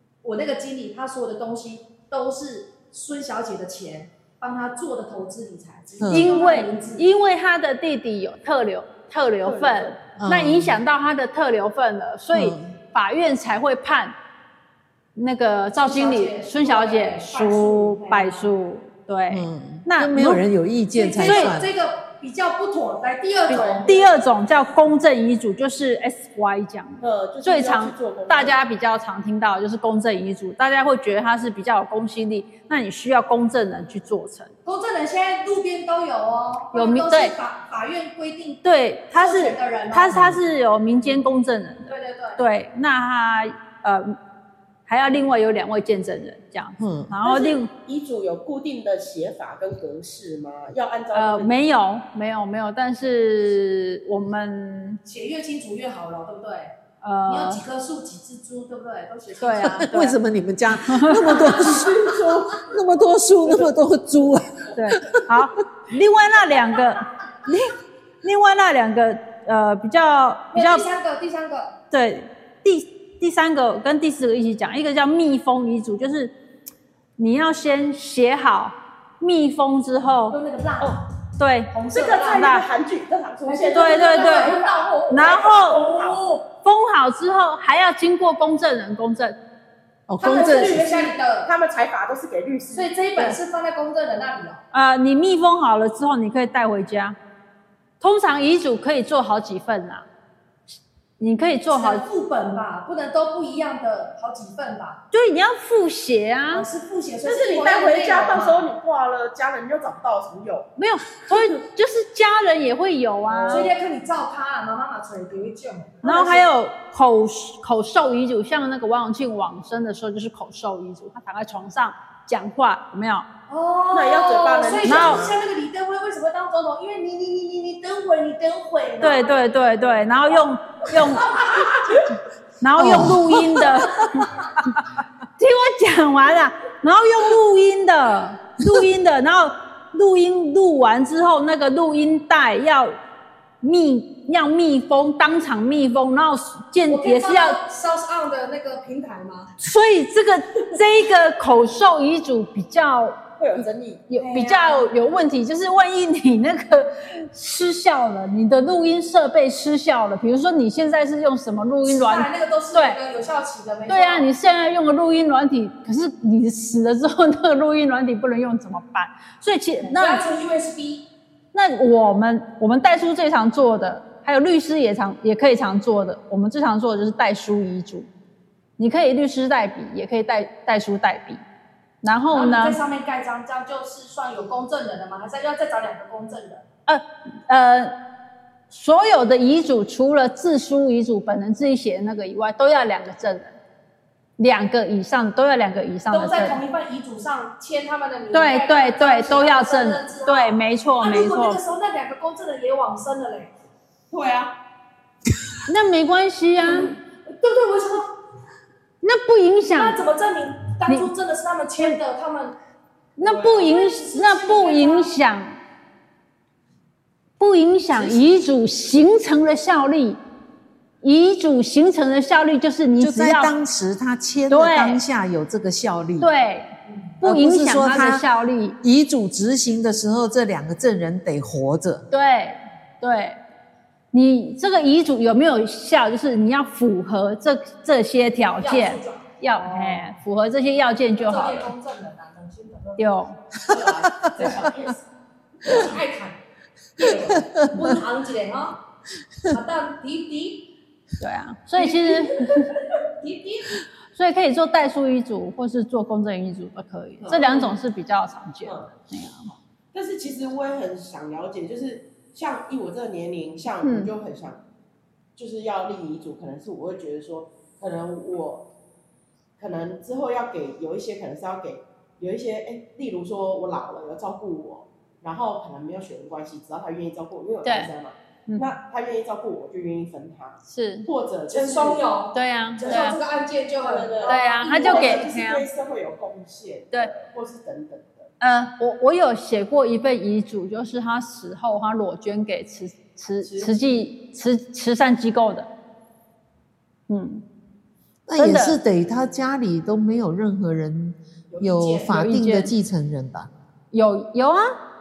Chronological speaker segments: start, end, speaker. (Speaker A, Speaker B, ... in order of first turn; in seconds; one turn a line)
Speaker A: 0.2-7.1
Speaker B: 6.0-6.3
Speaker C: 6.1-14.1
Speaker D: 9.4-10.0
Speaker B: 10.2-10.8
Speaker B: 12.3-12.7
Speaker C: 15.1-20.4
Speaker A: 15.8-18.5
Speaker B: 19.3-21.7
Speaker A: 20.9-24.1
Speaker C: 21.2-21.6
Speaker D: 23.5-24.0
Speaker C: 23.5-34.5
Speaker D: 27.0-28.6
Speaker A: 34.6-40.2
Speaker C: 36.7-37.4
Speaker C: 38.6-44.2
Speaker B: 40.1-40.4
Speaker A: 41.9-42.4
Speaker C: 44.9-47.7
Speaker B: 46.8-47.1
Speaker D: 47.3-51.6
Speaker C: 51.1-55.0
Speaker A: 55.0-56.8
Speaker C: 57.0-57.6
Speaker A: 57.3-59.9
Speaker C: 59.4-60.2
Speaker B: 59.8-65.3
Speaker C: 60.8-61.4
Speaker A: 61.3-61.9
Speaker D: 61.4-62.7
Speaker C: 64.8-70.9
Speaker A: 70.5-71.8
Speaker C: 71.9-76.3
Speaker C: 77.2-80.4
Speaker A: 80.3-81.0
Speaker C: 81.4-81.7
Speaker A: 81.7-82.5
Speaker D: 81.9-86.3
Speaker C: 82.3-82.6
Speaker A: 83.5-86.4
Speaker C: 83.7-84.6
Speaker C: 85.1-85.9
Speaker C: 86.6-89.4
Speaker B: 90.1-90.8
Speaker A: 90.2-91.5
Speaker D: 90.2-92.9
Speaker A: 92.7-94.6
Speaker C: 94.7-97.2
Speaker C: 98.0-100.1
Speaker C: 101.2-102.0
Speaker A: 101.7-105.0
Speaker C: 105.1-106.7
Speaker A: 106.5-108.6
Speaker D: 107.2-110.7
Speaker C: 110.8-113.7
Speaker D: 113.3-113.7
Speaker A: 113.5-116.4
Speaker C: 116.0-123.3
Speaker A: 123.5-129.7
Speaker D: 123.9-125.4
Speaker C: 124.8-125.2
Speaker C: 129.0-131.5
Speaker A: 130.9-132.1
Speaker C: 132.6-134.4
Speaker B: 132.8-134.1
Speaker C: 135.4-143.0
Speaker C: 143.6-147.6
Speaker A: 146.9-149.5
Speaker C: 149.6-153.2
Speaker D: 153.4-154.1
Speaker C: 154.1-163.0
Speaker A: 154.2-154.9
Speaker A: 161.8-164.3
Speaker C: 163.9-170.2
Speaker A: 169.8-171.1
Speaker C: 171.5-178.1
Speaker C: 178.8-181.4
Speaker C: 182.0-182.8
Speaker A: 182.3-186.7
Speaker C: 186.9-188.0
Speaker C: 188.7-193.6
Speaker C: 194.4-196.6
Speaker A: 196.1-203.5
Speaker C: 198.3-201.6
Speaker D: 204.1-204.6
Speaker C: 205.7-206.9
Speaker A: 206.7-208.2
Speaker C: 209.0-210.0
Speaker A: 209.7-212.6
Speaker C: 213.2-215.6
Speaker D: 213.2-213.7
Speaker A: 213.6-215.1
Speaker C: 217.4-220.2
Speaker C: 221.0-223.5
Speaker B: 223.0-226.3
Speaker C: 224.5-225.0
Speaker C: 226.2-228.8
Speaker B: 227.2-228.2
Speaker B: 228.8-232.1
Speaker C: 232.1-233.4
Speaker C: 234.1-241.7
Speaker A: 238.6-240.0
Speaker A: 241.2-243.1
Speaker C: 243.0-243.4
Speaker A: 243.6-244.7
Speaker D: 243.7-245.0
Speaker A: 245.6-246.4
Speaker A: 247.0-248.8
Speaker B: 247.1-248.0
Speaker A: 249.5-250.7
Speaker C: 251.2-252.7
Speaker A: 251.8-252.1
Speaker A: 253.1-253.8
Speaker C: 254.1-259.5
Speaker D: 257.2-257.8
Speaker D: 258.6-258.9
Speaker D: 259.9-264.6
Speaker C: 263.8-264.1
Speaker D: 265.4-268.7
Speaker D: 269.6-282.1
Speaker C: 277.6-277.9
Speaker C: 278.5-278.8
Speaker C: 280.6-281.1
Speaker A: 281.5-285.3
Speaker C: 282.3-283.2
Speaker D: 283.8-288.3
Speaker C: 284.2-285.6
Speaker C: 288.4-295.7
Speaker D: 293.4-293.8
Speaker C: 297.1-297.4
Speaker B: 298.3-303.5
Speaker C: 298.4-298.8
Speaker A: 301.5-302.2
Speaker C: 302.1-302.7
Speaker C: 303.9-304.8